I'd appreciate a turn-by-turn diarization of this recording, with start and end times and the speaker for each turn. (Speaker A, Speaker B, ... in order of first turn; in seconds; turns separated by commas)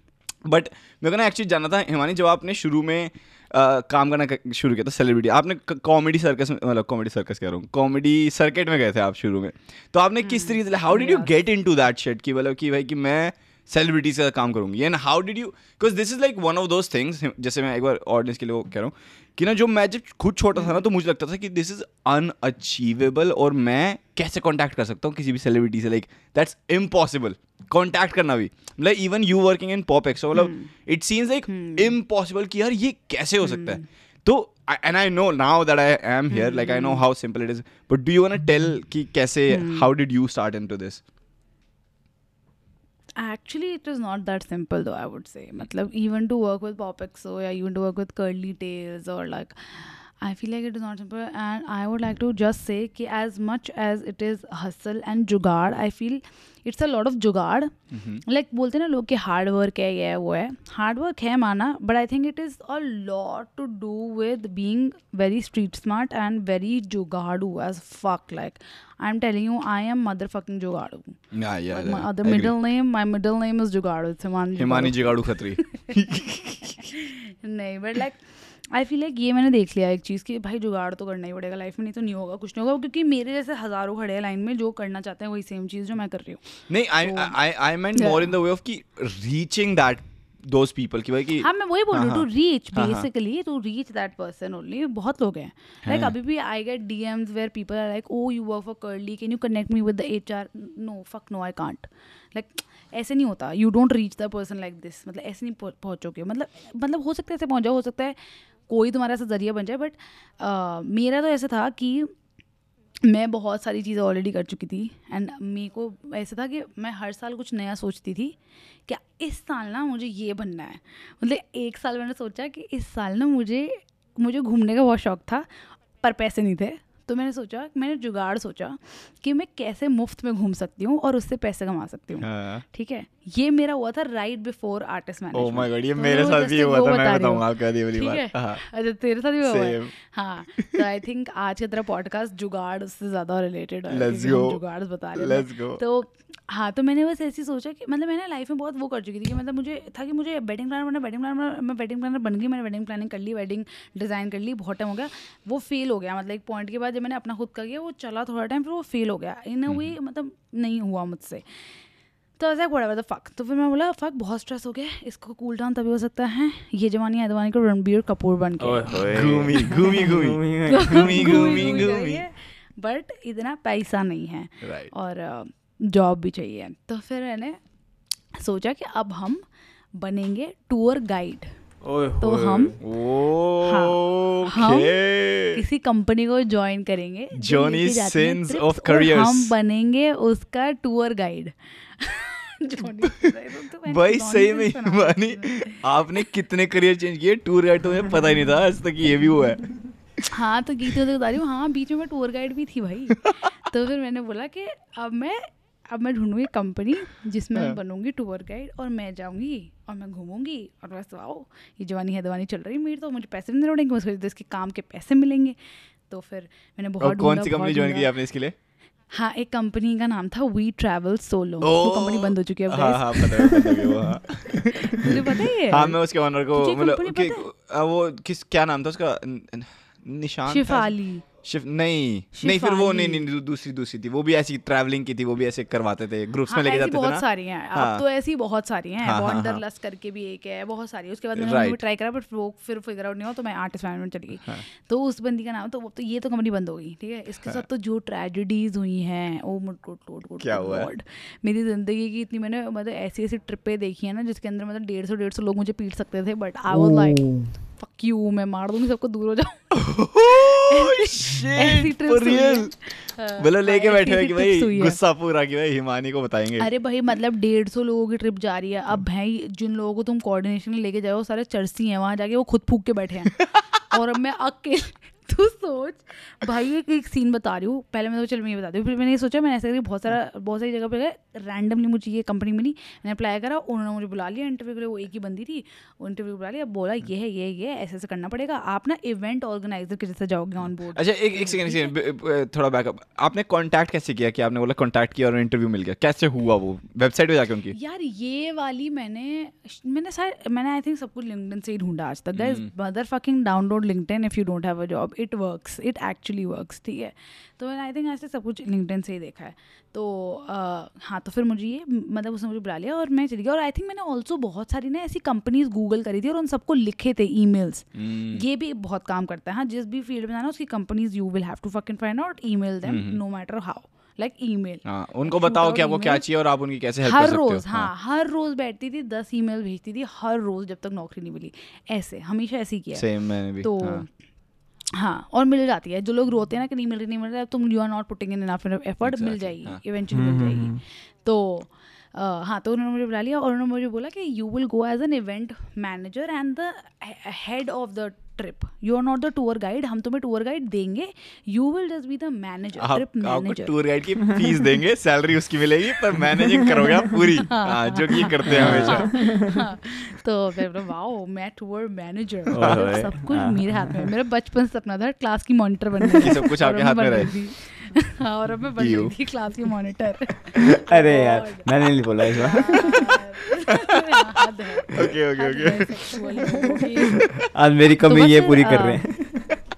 Speaker A: 0.5-41.0, Speaker B: 10.2-11.3, Speaker B: 20.5-20.8, Speaker B: 30.3-30.7, Speaker B: 31.5-31.9, Speaker B: 33.4-33.8, Speaker B: 36.3-37.0, Speaker B: 39.5-39.9, Speaker B: 43.2-57.7, Speaker A: 57.9-58.2, Speaker B: 58.2-71.2, Speaker A: 71.3-72.5, Speaker B: 71.7-75.9, Speaker A: 74.6-76.8, Speaker B: 76.8-86.4, Speaker A: 86.7-93.1, Speaker B: 87.0-87.3, Speaker B: 88.0-88.3, Speaker B: 91.4-112.1, Speaker A: 95.8-96.1, Speaker B: 113.0-118.3, Speaker B: 118.9-161.4, Speaker A: 132.2-132.6, Speaker A: 135.3-138.6, Speaker A: 139.4-139.9, Speaker A: 143.9-144.6, Speaker A: 145.1-145.8, Speaker A: 159.7-159.9, Speaker B: 162.4-169.1, Speaker C: 168.6-171.8, Speaker A: 169.1-172.2, Speaker B: 170.7-177.6, Speaker A: 174.6-174.9, Speaker B: 178.4-179.4, Speaker B: 180.0-181.5, Speaker C: 181.8-182.8, Speaker B: 182.2-182.8, Speaker A: 182.8-185.6, Speaker B: 183.6-185.0, Speaker B: 185.5-195.8, Speaker A: 187.4-189.5, Speaker A: 193.9-199.8, Speaker B: 200.3-215.6, Speaker B: 216.1-218.1, Speaker A: 217.0-218.5, Speaker B: 219.1-223.9, Speaker A: 221.6-238.0, Speaker B: 224.8-226.0, Speaker B: 226.5-227.4, Speaker B: 230.5-231.2, Speaker B: 232.3-233.2, Speaker B: 236.5-259.7, Speaker A: 239.0-239.6, Speaker A: 241.3-241.8, Speaker A: 250.4-250.9, Speaker C: 256.7-257.5, Speaker A: 259.7-266.7, Speaker B: 260.6-265.0, Speaker B: 266.6-291.9, Speaker A: 290.9-297.8, Speaker B: 297.7-326.2, Speaker A: 302.3-302.7, Speaker A: 317.9-318.4, Speaker A: 322.8-323.2, Speaker A: 324.9-327.9, Speaker B: 327.0-333.1, Speaker A: 332.9-334.0, Speaker B: 333.6-334.1, Speaker B: 334.9-353.8, Speaker A: 339.0-339.8, Speaker C: 340.1-340.8, Speaker A: 352.8-359.3, Speaker B: 357.5-371.7, Speaker C: 358.5-359.5, Speaker C: 362.5-364.1, Speaker A: 366.2-367.4, Speaker A: 368.8-369.1, Speaker C: 370.6-373.2, Speaker B: 372.4-377.3, Speaker A: 374.9-376.2, Speaker C: 377.5-379.6, Speaker B: 378.1-379.0